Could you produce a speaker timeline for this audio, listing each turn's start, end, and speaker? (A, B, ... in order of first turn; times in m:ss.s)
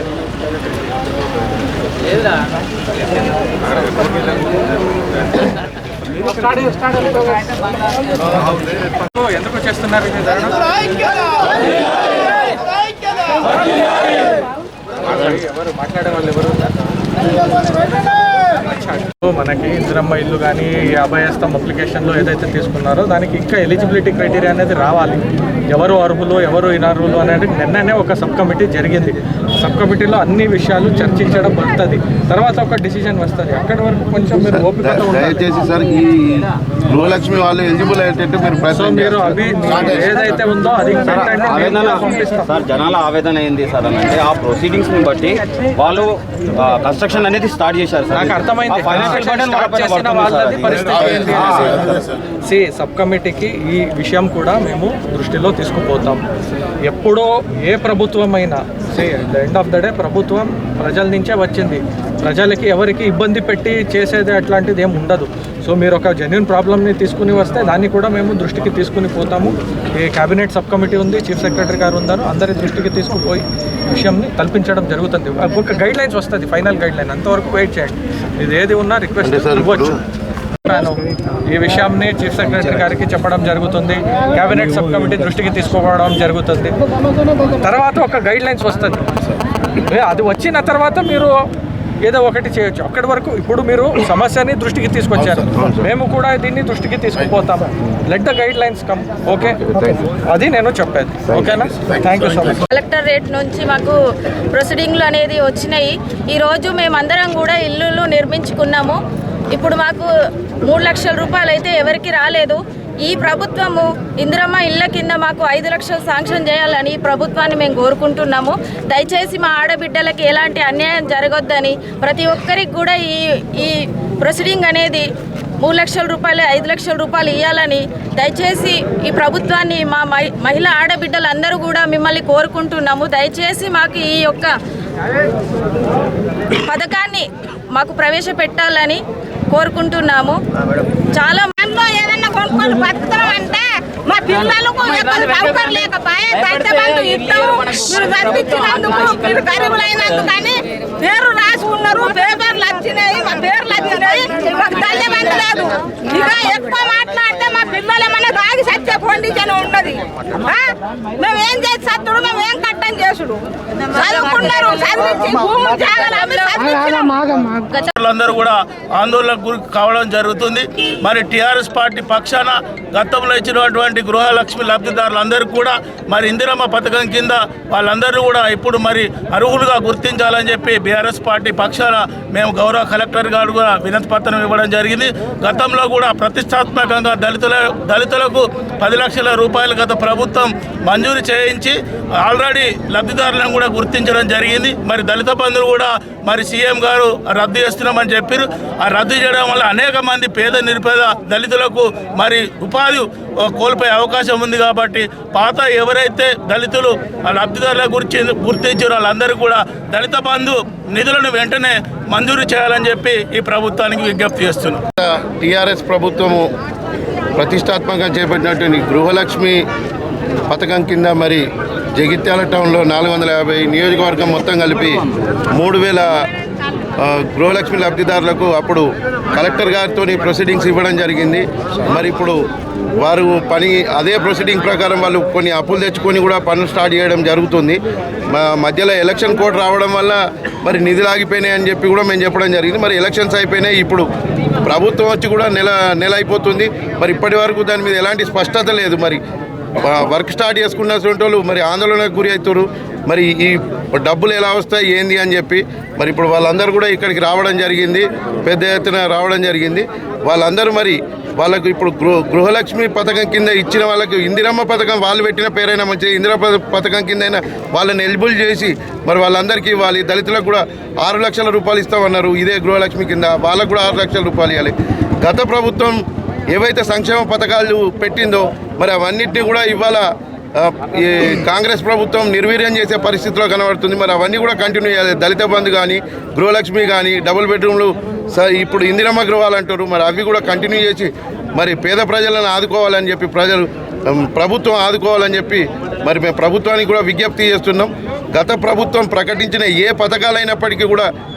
0:06.6-0:06.9 A
0:08.7-0:10.7 A
0:15.0-0:16.8 A
0:18.6-0:35.5 A
0:34.5-0:40.2 B
0:38.7-0:42.5 A
0:41.0-0:52.1 C
0:48.1-0:51.8 A
0:52.4-0:56.2 A
0:56.8-1:20.0 A
1:19.2-1:20.0 B
1:20.6-1:26.8 A
1:27.6-1:29.0 A
1:29.8-1:31.4 A
1:32.0-1:42.7 A
1:42.7-1:43.9 D
1:44.5-1:49.0 D
1:49.5-1:50.0 D
1:50.6-2:05.0 D
2:05.6-2:14.5 D
2:16.6-2:19.0 D
2:19.5-2:20.4 D
2:21.1-2:21.7 D
2:21.6-2:47.5 E
2:46.1-2:46.6 D
2:47.8-3:34.8 F
3:35.0-3:36.5 B
3:37.4-3:39.6 B
3:40.5-3:46.0 B
3:47.0-3:52.4 B
3:53.0-3:57.8 B
3:58.3-4:04.1 B
4:04.6-4:09.2 B
4:09.8-4:36.0 B
4:36.5-4:40.0 B
4:40.6-5:01.1 B